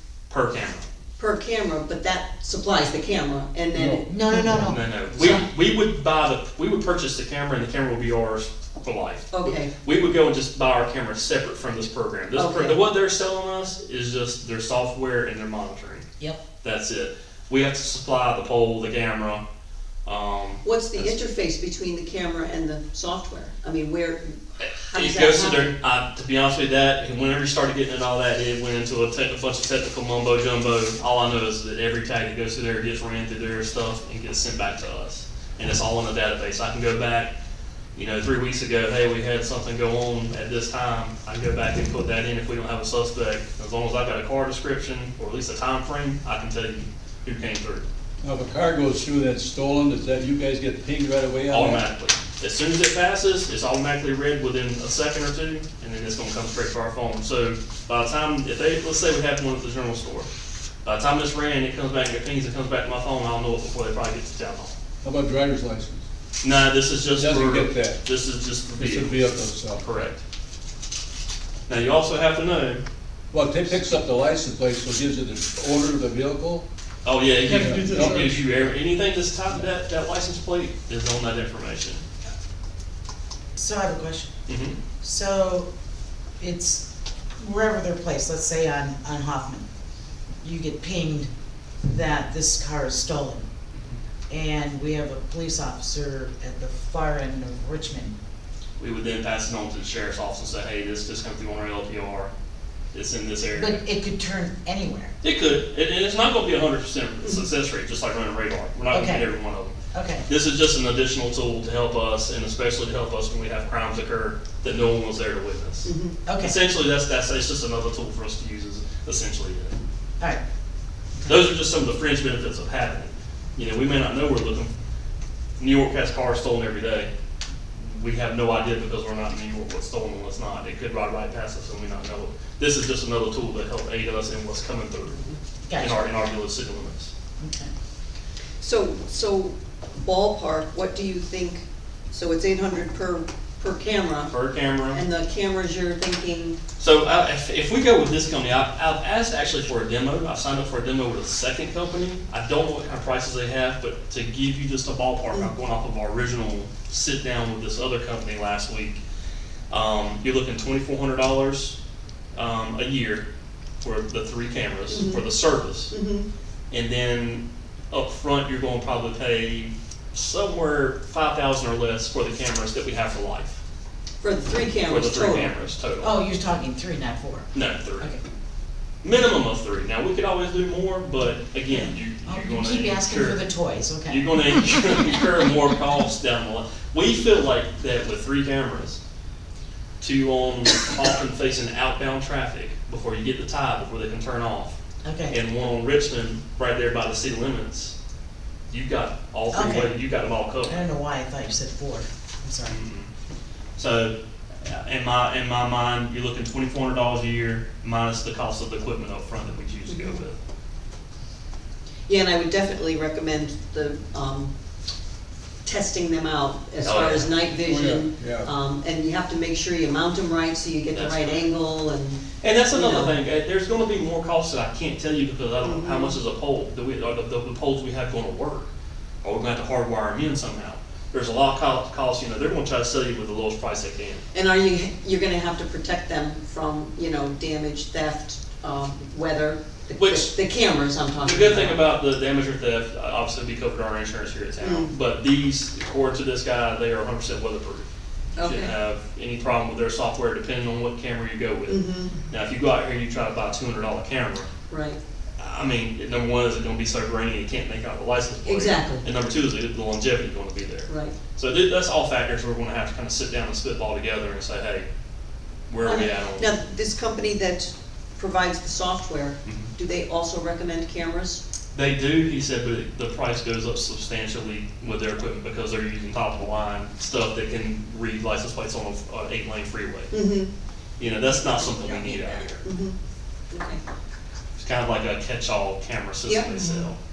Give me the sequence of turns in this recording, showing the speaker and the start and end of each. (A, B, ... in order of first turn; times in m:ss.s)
0:00.3-0:00.9 A
0:01.2-0:04.6 B
0:03.8-0:04.7 C
0:04.1-0:04.9 D
0:04.6-0:16.1 A
0:05.1-0:05.4 B
0:09.3-0:09.7 B
0:12.3-0:12.8 B
0:16.6-0:19.4 A
0:20.1-0:21.1 A
0:20.6-0:25.7 B
0:24.6-0:37.3 A
0:38.0-0:47.8 A
0:48.2-0:51.9 C
0:51.5-1:00.3 A
1:00.8-1:04.7 A
1:05.0-1:06.1 C
1:06.4-1:10.2 A
1:07.2-1:08.0 C
1:08.8-1:09.8 C
1:11.7-1:12.8 A
1:13.3-1:16.6 C
1:17.0-1:22.0 A
1:17.4-1:18.6 C
1:23.6-1:24.3 D
1:24.5-1:24.8 A
1:25.0-1:25.7 D
1:26.4-1:26.9 D
1:27.4-1:29.7 D
1:30.4-1:31.3 D
1:31.8-1:33.5 D
1:34.3-1:38.2 D
1:38.8-1:42.3 A
1:42.9-1:43.8 A
1:43.6-1:45.1 D
1:45.2-1:49.8 A
1:48.9-1:49.3 D
1:49.9-1:50.3 D
1:50.3-1:59.7 A
1:55.8-1:56.2 B
1:56.3-1:56.6 D
2:01.3-2:04.7 A
2:05.6-2:07.1 A
2:07.8-2:17.1 A
2:15.7-2:16.0 D
2:17.4-2:17.7 D
2:18.6-2:24.3 B
2:24.3-2:25.0 A
2:24.9-2:26.6 B
2:26.8-2:39.0 A
2:39.7-2:41.8 A
2:42.4-2:43.2 A
2:43.8-2:46.0 A
2:44.9-2:45.2 B
2:45.9-2:46.3 B
2:46.7-2:53.6 A
2:54.2-2:55.5 B
2:54.8-2:56.2 A
2:56.0-2:58.2 D
2:57.5-2:58.1 A
2:59.0-3:03.5 A
3:01.7-3:05.4 D
3:04.1-3:09.0 A
3:10.0-3:14.8 A
3:15.0-3:15.4 D
3:15.3-3:18.0 A
3:18.7-3:20.9 A
3:19.5-3:20.0 D
3:20.6-3:22.8 D
3:22.6-3:23.1 A
3:23.8-3:30.4 A
3:29.9-3:30.2 B
3:32.1-3:34.5 B
3:35.6-3:43.2 B
3:36.8-3:37.4 A
3:37.6-3:38.5 C
3:40.9-3:41.5 A
3:42.4-3:48.7 A
3:45.6-3:46.2 B
3:49.2-3:54.2 A
3:54.3-4:01.8 B
4:00.0-4:00.3 A
4:01.2-4:07.9 A
4:04.6-4:04.9 B
4:08.4-4:08.7 B
4:08.4-4:14.5 A
4:11.7-4:12.2 B
4:14.7-4:15.0 B
4:15.4-4:24.9 A
4:18.5-4:19.0 B
4:20.9-4:21.2 B
4:25.7-4:26.6 A
4:25.8-4:31.4 B
4:29.4-4:29.7 A
4:31.7-4:40.2 A
4:40.1-4:40.5 B
4:41.0-4:42.7 A
4:41.5-4:43.0 B
4:43.5-4:43.8 B
4:44.6-4:47.0 A
4:46.3-4:46.9 B